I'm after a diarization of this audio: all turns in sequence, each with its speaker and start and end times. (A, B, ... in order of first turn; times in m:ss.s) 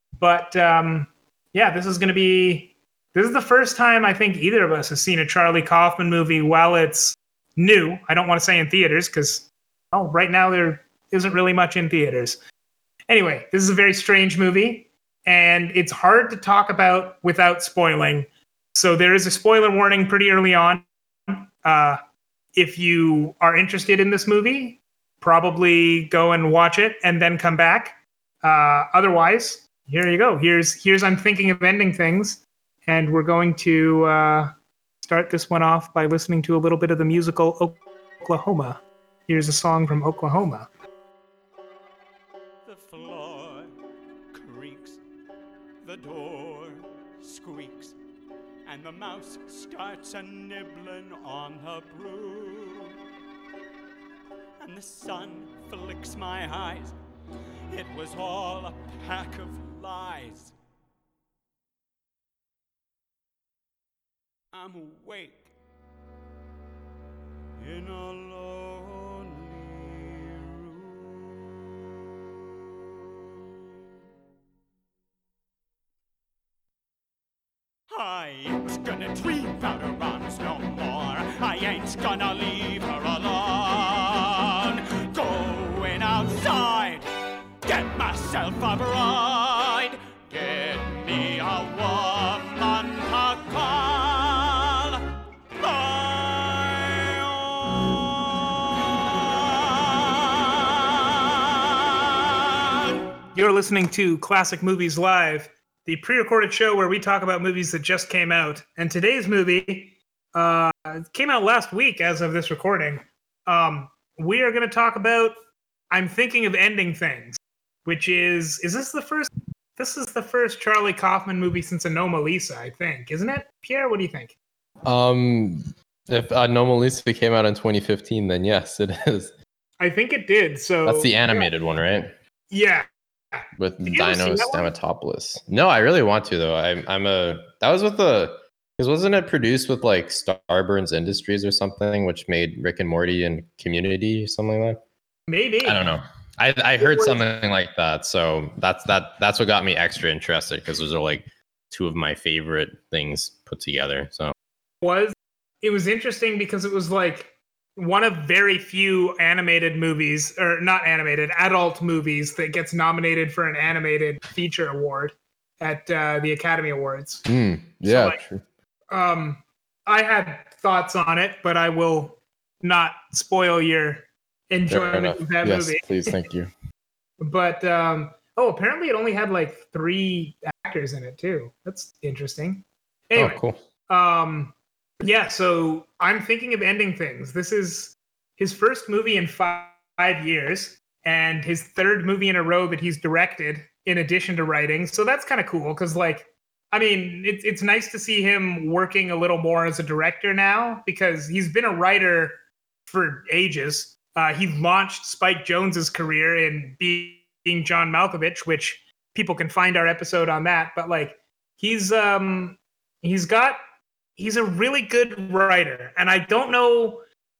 0:00.2-0:12.4 A
0:13.1-0:22.0 A
0:22.6-0:40.7 A
0:42.6-0:43.7 B
0:44.3-0:45.0 B
0:45.8-0:48.0 B
0:48.6-0:53.0 B
0:54.6-0:57.0 B
0:57.7-1:00.5 B
1:04.5-1:05.5 B
1:07.6-1:11.4 B
1:17.9-1:27.0 B
1:27.6-1:35.0 B
1:35.6-1:43.0 B
1:43.3-1:55.3 A
1:55.9-2:04.4 A
2:04.8-2:09.3 C
2:09.8-2:11.5 A
2:10.8-2:12.1 C
2:12.5-2:14.7 A
2:13.6-2:24.8 C
2:25.3-2:25.8 A
2:25.6-2:34.3 C
2:26.8-2:27.2 A
2:34.8-2:47.2 A
2:47.2-2:48.4 C
2:47.8-2:48.2 A
2:48.9-2:56.2 A
2:54.7-2:56.5 C
2:57.2-3:33.6 A
3:03.2-3:03.6 C
3:34.2-3:37.0 A